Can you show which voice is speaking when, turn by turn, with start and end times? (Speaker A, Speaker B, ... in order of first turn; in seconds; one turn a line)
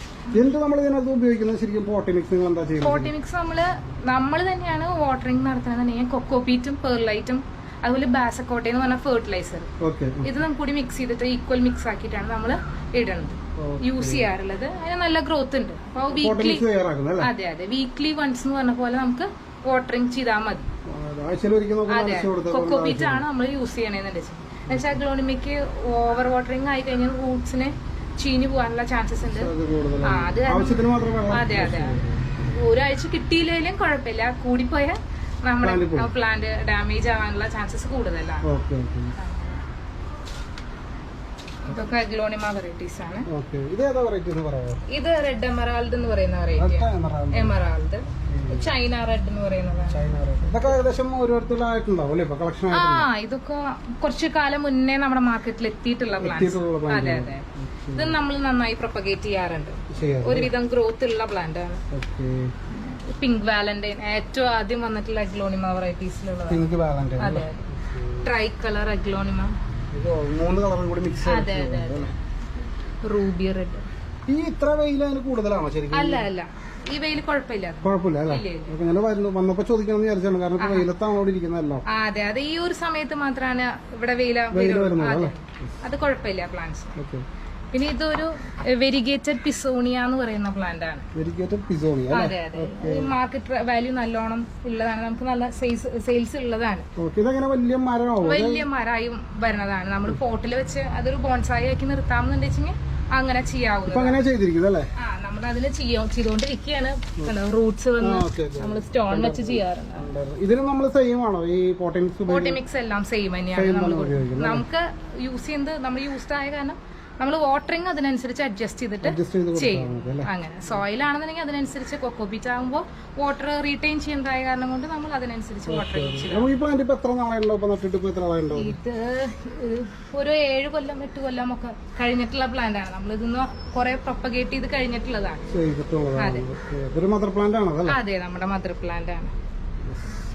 Speaker A: 0.3-3.1
Speaker B: 2.8-9.7
Speaker A: 9.8-10.3
Speaker B: 10.2-16.6
Speaker A: 13.6-14.3
Speaker A: 16.1-17.3
Speaker B: 17.2-20.7
Speaker A: 20.9-23.2
Speaker B: 21.9-29.5
Speaker A: 24.7-25.0
Speaker A: 29.3-32.5
Speaker B: 30.0-38.5
Speaker A: 35.6-36.1
Speaker A: 38.4-39.1
Speaker B: 39.2-39.6
Speaker B: 41.7-43.3
Speaker A: 43.3-44.8
Speaker B: 44.9-50.1
Speaker A: 46.6-47.6
Speaker A: 48.3-48.7
Speaker A: 49.9-53.1
Speaker B: 52.7-61.9
Speaker A: 56.2-58.2
Speaker A: 59.9-60.5
Speaker A: 61.9-62.5
Speaker B: 62.7-66.7
Speaker A: 66.5-68.3
Speaker B: 67.2-67.7
Speaker B: 68.2-69.5
Speaker A: 69.9-72.1
Speaker B: 71.2-72.2
Speaker B: 73.0-73.8
Speaker A: 74.3-76.3
Speaker B: 75.9-78.8
Speaker A: 77.8-81.8
Speaker B: 80.6-80.9
Speaker B: 81.9-87.0
Speaker A: 84.5-85.7
Speaker A: 87.0-87.3
Speaker B: 87.7-91.1
Speaker A: 91.2-93.1
Speaker B: 92.1-96.9
Speaker A: 97.0-98.7
Speaker B: 98.2-104.2
Speaker A: 103.9-104.9
Speaker B: 105.0-110.1
Speaker A: 108.0-112.6
Speaker B: 112.3-126.5
Speaker A: 113.5-114.7
Speaker A: 119.0-120.3
Speaker A: 125.7-128.8
Speaker B: 128.5-135.5
Speaker A: 135.5-138.0
Speaker B: 136.2-136.4
Speaker B: 137.9-139.3
Speaker A: 139.8-140.2